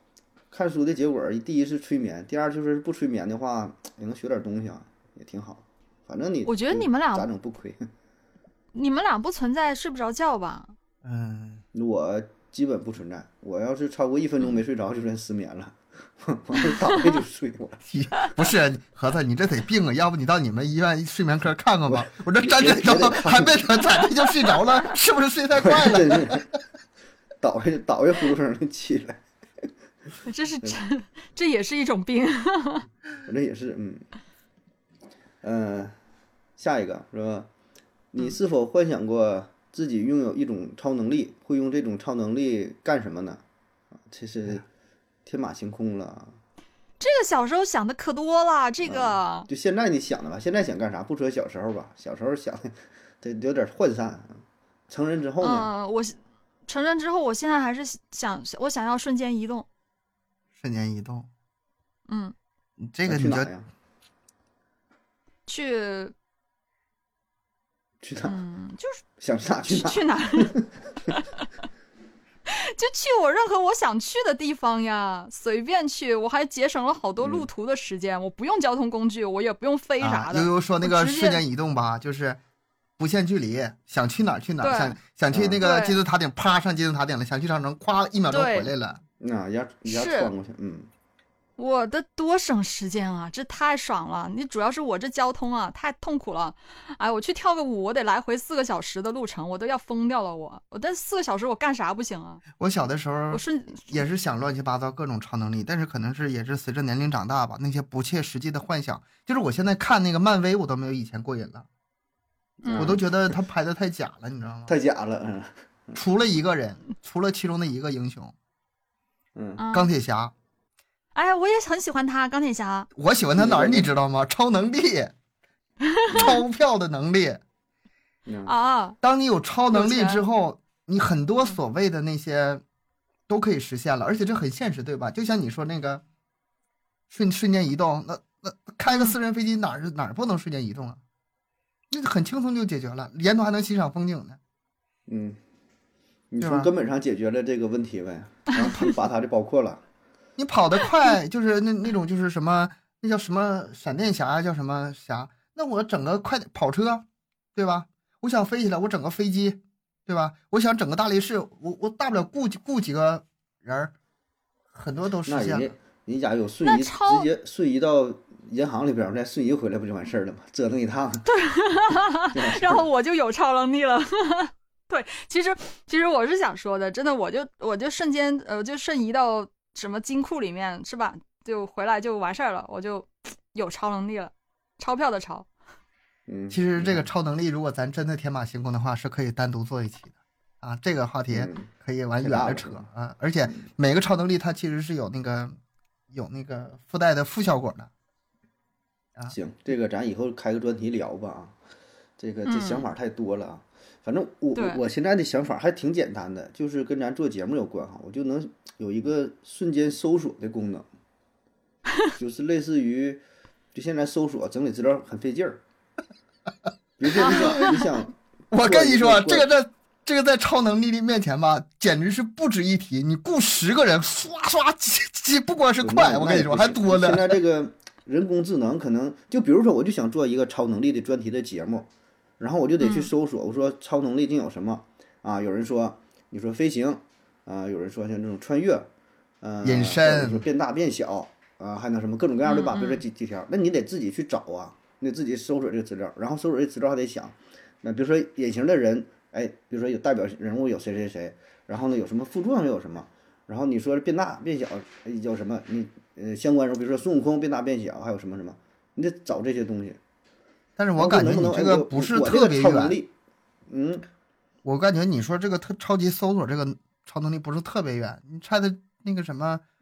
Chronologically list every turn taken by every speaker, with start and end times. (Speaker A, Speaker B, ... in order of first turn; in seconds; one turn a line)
Speaker A: 0.5-7.9
Speaker B: 6.5-7.3
Speaker B: 8.7-10.7
Speaker C: 11.0-11.6
Speaker A: 11.7-17.8
Speaker C: 17.8-26.4
Speaker A: 21.9-23.9
Speaker A: 25.5-26.4
Speaker A: 27.4-29.2
Speaker B: 30.2-32.9
Speaker A: 33.2-34.0
Speaker A: 35.4-36.0
Speaker A: 36.6-37.5
Speaker A: 38.1-43.4
Speaker A: 44.1-44.6
Speaker A: 45.2-46.4
Speaker B: 47.0-49.5
Speaker A: 48.8-55.7
Speaker B: 55.4-59.6
Speaker C: 60.6-61.3
Speaker B: 62.1-62.3
Speaker C: 62.8-63.5
Speaker A: 63.0-63.7
Speaker B: 65.5-66.1
Speaker A: 68.0-68.4
Speaker B: 68.2-69.0
Speaker A: 69.2-70.7
Speaker B: 69.7-70.5
Speaker B: 72.5-81.4
Speaker A: 77.2-77.5
Speaker C: 80.0-82.4
Speaker C: 83.0-89.0
Speaker B: 84.6-85.0
Speaker A: 85.3-85.6
Speaker B: 85.6-86.0
Speaker B: 88.3-88.7
Speaker A: 89.2-90.9
Speaker B: 89.9-90.3
Speaker B: 91.6-102.4
Speaker C: 102.6-111.7
Speaker B: 103.3-104.0
Speaker B: 112.6-113.0
Speaker A: 112.6-113.0
Speaker C: 112.7-114.7
Speaker A: 114.7-116.0
Speaker C: 115.9-118.3
Speaker A: 119.3-119.6
Speaker B: 119.6-119.9
Speaker C: 119.7-120.3
Speaker B: 121.1-122.9
Speaker C: 122.9-125.1
Speaker A: 123.3-123.9
Speaker B: 125.9-126.3
Speaker A: 126.1-126.4
Speaker C: 126.1-127.4
Speaker A: 128.2-128.5
Speaker B: 128.4-129.0
Speaker C: 129.0-132.6
Speaker B: 129.7-130.2
Speaker C: 133.3-136.0
Speaker C: 137.1-141.0
Speaker C: 141.9-144.4
Speaker A: 145.1-145.4
Speaker A: 146.3-149.8
Speaker C: 146.4-146.7
Speaker C: 150.4-163.9
Speaker C: 164.7-165.7
Speaker A: 165.2-171.3
Speaker B: 166.6-167.3
Speaker B: 171.2-185.5
Speaker A: 172.3-172.8
Speaker A: 186.3-187.1
Speaker C: 186.5-195.6
Speaker A: 191.3-191.7
Speaker A: 192.2-192.9
Speaker C: 196.1-197.9
Speaker A: 199.3-201.5
Speaker A: 202.2-210.8
Speaker B: 202.4-202.8
Speaker B: 204.5-204.8
Speaker A: 212.1-213.2
Speaker A: 213.7-215.6
Speaker A: 217.0-219.5
Speaker C: 217.2-217.7
Speaker B: 217.3-217.7
Speaker C: 218.5-227.4
Speaker A: 225.8-231.9
Speaker A: 232.4-238.9
Speaker B: 232.8-233.1
Speaker A: 239.4-260.0
Speaker C: 239.6-240.4
Speaker B: 242.4-243.0
Speaker C: 260.8-263.0
Speaker A: 261.0-263.1
Speaker A: 263.7-264.1
Speaker C: 264.6-269.6